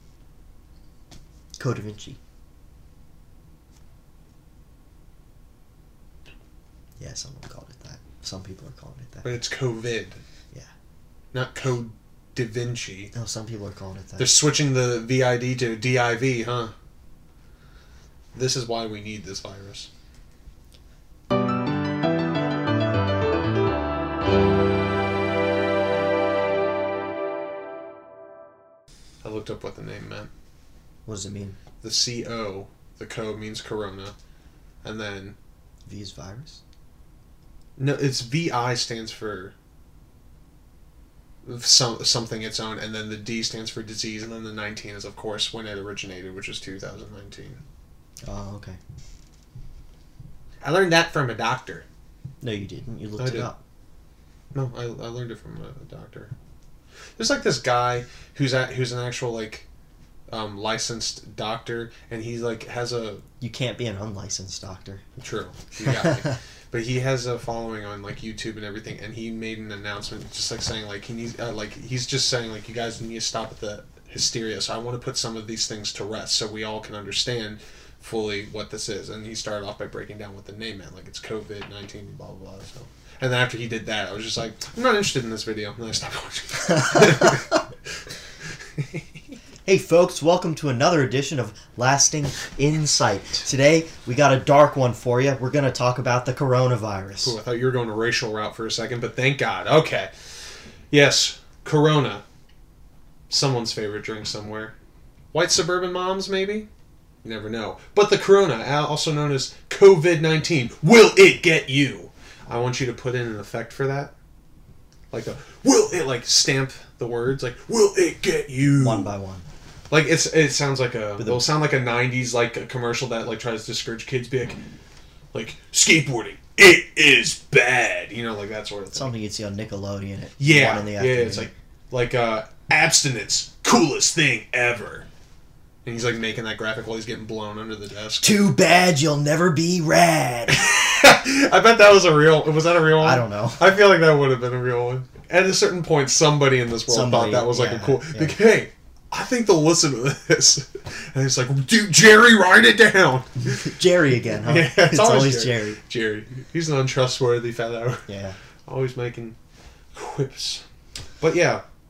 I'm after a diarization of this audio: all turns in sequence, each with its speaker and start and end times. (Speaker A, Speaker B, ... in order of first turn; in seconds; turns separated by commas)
Speaker A: 1.6-2.2, Speaker A: 7.0-9.4, Speaker B: 9.2-10.2, Speaker B: 11.3-13.1, Speaker A: 13.1-14.3, Speaker B: 14.2-16.7, Speaker B: 18.3-19.9, Speaker B: 29.2-30.3, Speaker A: 31.1-31.6, Speaker B: 31.8-34.1, Speaker B: 34.8-35.4, Speaker A: 35.9-36.6, Speaker B: 37.8-39.5, Speaker B: 41.5-47.6, Speaker A: 48.2-48.8, Speaker B: 50.6-51.9, Speaker A: 52.4-53.6, Speaker B: 53.2-53.5, Speaker B: 54.5-56.3, Speaker B: 57.2-59.7, Speaker B: 60.3-63.2, Speaker A: 63.4-65.0, Speaker B: 65.2-87.6, Speaker A: 65.8-66.4, Speaker A: 86.8-87.4, Speaker A: 89.7-97.4, Speaker B: 97.2-100.1, Speaker B: 100.9-102.2, Speaker B: 103.3-104.7, Speaker B: 105.3-106.7, Speaker B: 107.2-114.1, Speaker B: 115.1-119.1, Speaker A: 118.8-119.5, Speaker B: 119.9-124.6, Speaker A: 121.2-121.5, Speaker B: 125.3-129.2, Speaker A: 128.9-131.5, Speaker B: 130.4-135.1, Speaker B: 135.8-138.3, Speaker A: 138.2-140.7, Speaker B: 140.5-153.7, Speaker A: 143.0-143.6, Speaker A: 146.9-148.4, Speaker A: 153.5-155.8, Speaker B: 154.4-158.1, Speaker A: 158.1-158.4, Speaker B: 158.7-159.4, Speaker B: 159.9-160.6, Speaker B: 161.2-161.6